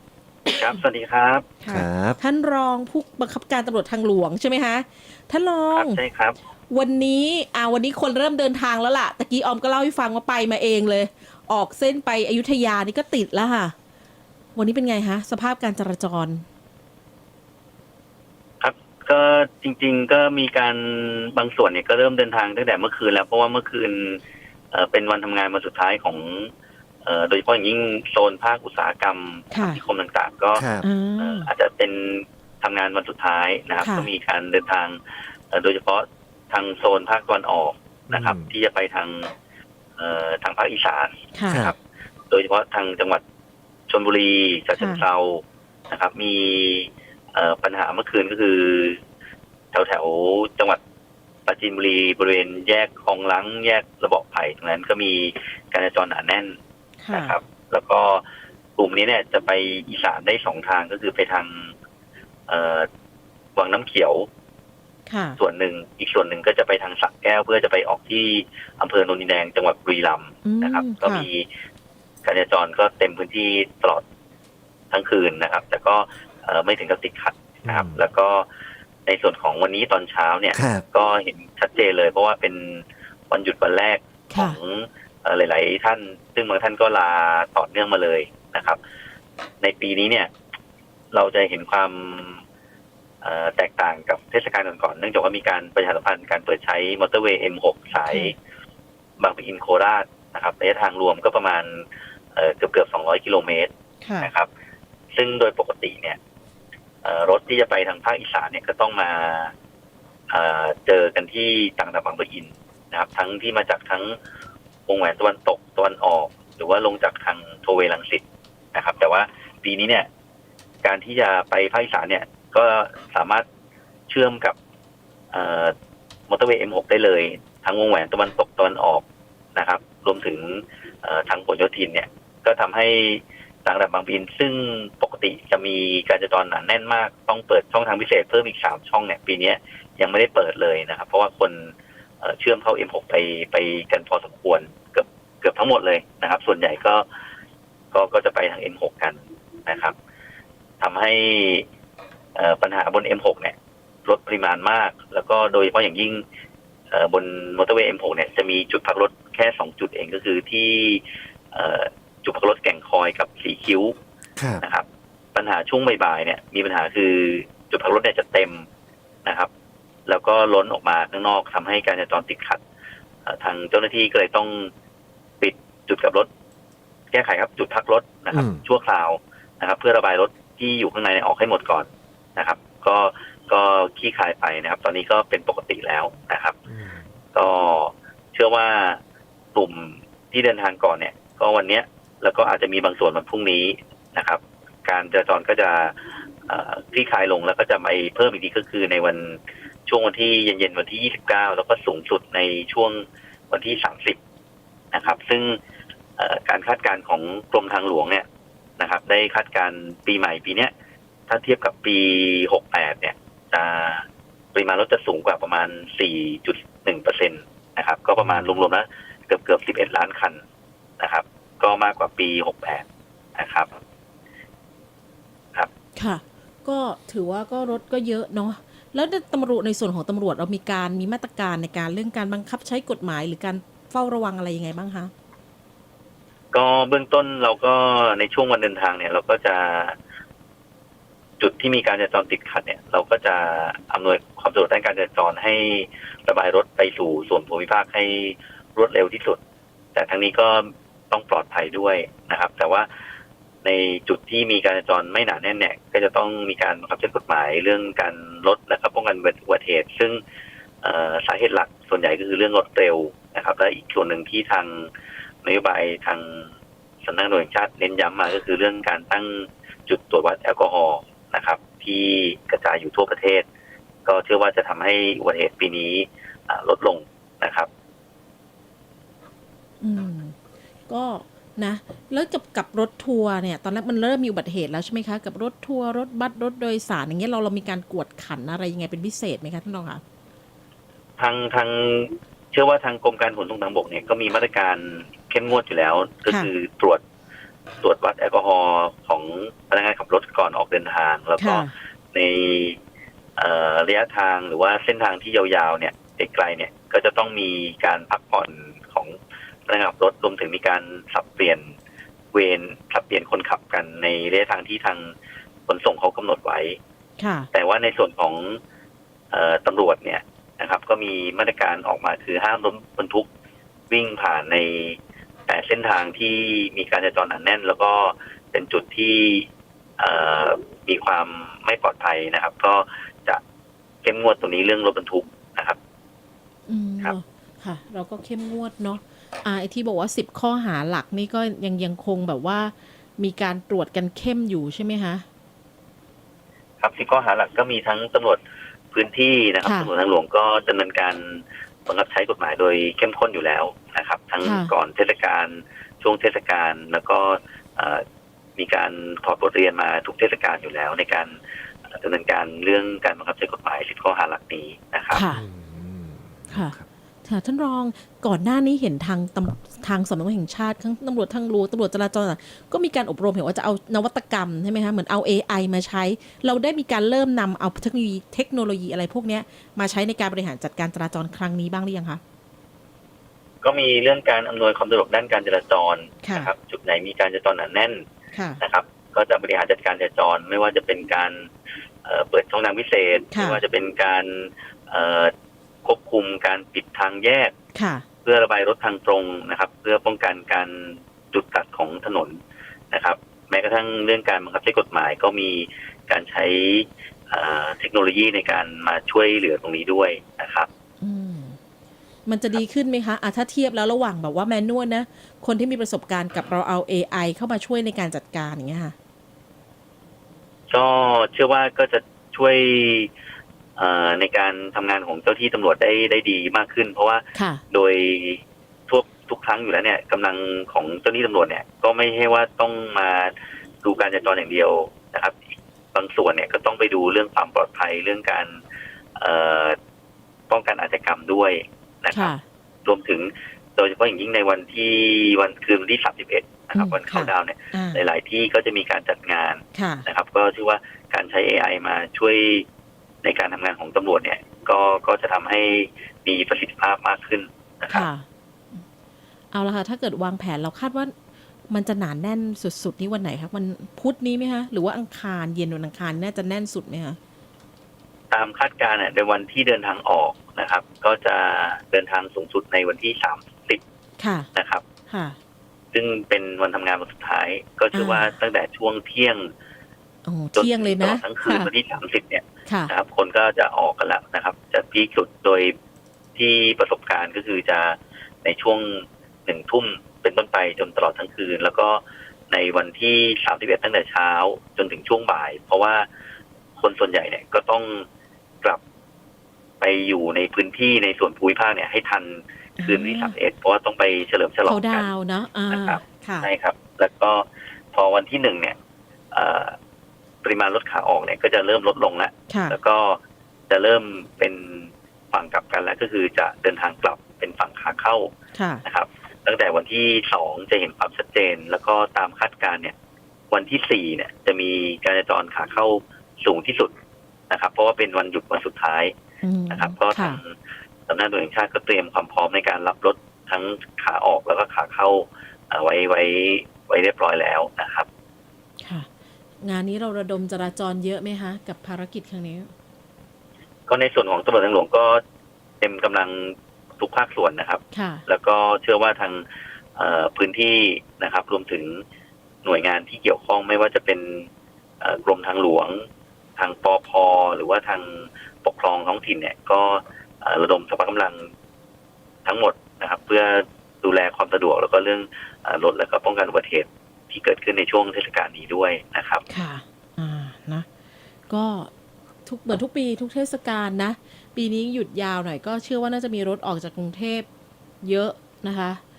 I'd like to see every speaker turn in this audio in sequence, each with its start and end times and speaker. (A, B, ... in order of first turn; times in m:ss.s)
0:00.5-0:01.5 A
0:01.6-0:06.0 B
0:01.7-0:02.2 C
0:05.7-0:06.4 A
0:06.7-0:13.7 B
0:14.6-0:16.4 B
0:18.6-0:24.2 A
0:24.7-0:26.5 A
0:27.0-0:30.6 A
0:29.5-0:29.8 B
0:30.6-0:30.9 C
0:30.8-0:31.5 B
0:31.2-0:35.0 A
0:33.8-0:34.1 B
0:35.5-0:39.3 A
0:38.1-0:38.5 C
0:40.0-0:41.8 A
0:41.3-0:41.6 B
0:41.5-0:41.7 C
0:42.3-0:43.2 A
0:43.9-0:49.0 A
0:44.8-0:45.0 B
0:49.7-0:50.8 A
0:51.5-0:56.6 A
0:57.0-0:57.4 B
0:57.1-0:58.2 A
0:58.8-1:01.7 A
1:02.5-1:02.9 A
1:03.6-1:04.3 A
1:05.1-1:05.4 B
1:05.4-1:11.5 A
1:10.4-1:11.3 B
1:12.2-1:14.0 A
1:14.9-1:18.5 A
1:17.6-1:18.0 C
1:19.1-1:28.8 A
1:20.5-1:20.8 C
1:24.3-1:24.6 B
1:29.6-1:30.3 A
1:31.1-1:32.4 A
1:33.2-1:38.4 A
1:38.0-1:38.3 B
1:39.2-1:43.7 A
1:44.0-1:44.3 B
1:44.2-1:44.5 A
1:45.1-1:46.2 A
1:47.0-1:49.5 A
1:50.3-1:54.2 A
1:54.9-1:58.2 A
1:58.7-2:00.1 A
2:00.8-2:03.4 A
2:04.1-2:04.6 A
2:05.3-2:05.7 A
2:06.3-2:09.0 A
2:09.6-2:27.0 A
2:27.9-2:30.0 A
2:30.8-2:31.7 A
2:32.4-2:33.6 A
2:34.1-2:36.2 A
2:36.9-2:44.0 A
2:44.4-2:44.6 C
2:44.6-2:48.7 A
2:50.1-2:52.6 A
2:53.3-2:54.7 A
2:55.4-2:56.3 A
2:57.1-3:06.6 A
2:58.3-2:58.6 C
3:06.7-3:07.1 C
3:07.3-3:09.0 A
3:09.6-3:24.2 A
3:24.9-3:25.6 A
3:26.2-3:28.2 A
3:28.8-3:30.7 A
3:31.3-3:40.4 A
3:41.0-3:42.8 A
3:43.4-3:43.8 A
3:46.0-3:55.1 B
3:56.5-4:00.0 A
4:01.4-4:09.4 A
4:10.0-4:12.9 A
4:13.6-4:20.2 A
4:20.8-4:24.9 A
4:25.4-4:26.5 A
4:27.0-4:33.5 A
4:34.1-4:37.7 A
4:39.8-4:40.4 B
4:40.9-4:50.0 B
4:51.2-4:57.0 A
4:57.8-5:02.8 A
5:01.4-5:01.7 B
5:03.4-5:09.2 A
5:09.7-5:11.7 A
5:12.3-5:15.1 A
5:15.7-5:16.8 A
5:17.2-5:17.5 B
5:17.5-5:18.6 A
5:19.3-5:23.3 A
5:23.9-5:29.5 A
5:30.0-5:33.4 A
5:34.0-5:35.8 A
5:36.7-5:45.2 B
5:46.8-5:48.4 A
5:48.9-5:58.0 A
5:49.6-5:49.9 B
5:54.4-5:54.7 B
5:58.6-6:01.4 A
6:01.9-6:05.2 A
6:05.1-6:05.4 B
6:05.3-6:06.9 C
6:06.5-6:22.2 B
6:23.6-6:28.0 A
6:26.2-6:26.5 B
6:28.3-6:28.6 B
6:28.6-6:31.5 A
6:32.0-6:35.3 A
6:33.3-6:33.6 B
6:35.8-6:37.5 A
6:37.8-6:38.0 B
6:38.2-6:42.4 A
6:42.9-6:50.7 A
6:51.0-6:51.6 B
6:52.3-6:59.0 B
7:00.7-7:03.1 A
7:03.8-7:15.4 A
7:07.4-7:07.6 B
7:15.9-7:18.6 A
7:19.2-7:19.8 A
7:20.5-7:22.3 A
7:22.1-7:22.4 B
7:22.8-7:32.7 A
7:26.8-7:28.0 B
7:29.7-7:30.1 B
7:33.2-7:38.1 A
7:37.9-7:38.8 B
7:39.5-7:41.1 B
7:41.7-7:47.2 B
7:48.3-7:53.8 A
7:54.2-7:54.5 B
7:54.5-7:54.8 A
7:55.1-7:55.4 B
7:55.9-7:59.5 A
7:57.9-7:58.3 B
8:00.3-8:01.7 B
8:00.6-8:05.7 A
8:02.7-8:02.9 B
8:06.4-8:16.1 A
8:16.8-8:18.1 A
8:19.8-8:25.1 A
8:22.8-8:23.4 B
8:24.6-8:26.5 B
8:25.7-8:28.8 A
8:29.3-8:29.8 A
8:30.4-8:33.2 A
8:32.5-8:32.8 B
8:33.7-8:38.3 A
8:38.5-8:38.8 B
8:38.8-8:42.9 A
8:43.5-8:46.9 A
8:47.5-8:49.1 A
8:49.4-8:50.4 B
8:49.7-8:50.6 A
8:51.1-8:58.1 A
8:58.8-8:59.1 B
8:59.6-9:02.7 B
9:03.9-9:05.2 A
9:05.8-9:09.4 A
9:07.9-9:08.2 B
9:10.0-9:12.0 A
9:12.6-9:14.5 A
9:15.0-9:16.0 A
9:16.6-9:21.5 A
9:22.4-9:29.4 A
9:29.5-9:30.9 B
9:31.5-9:31.9 B
9:32.4-9:37.5 B
9:38.0-9:39.0 B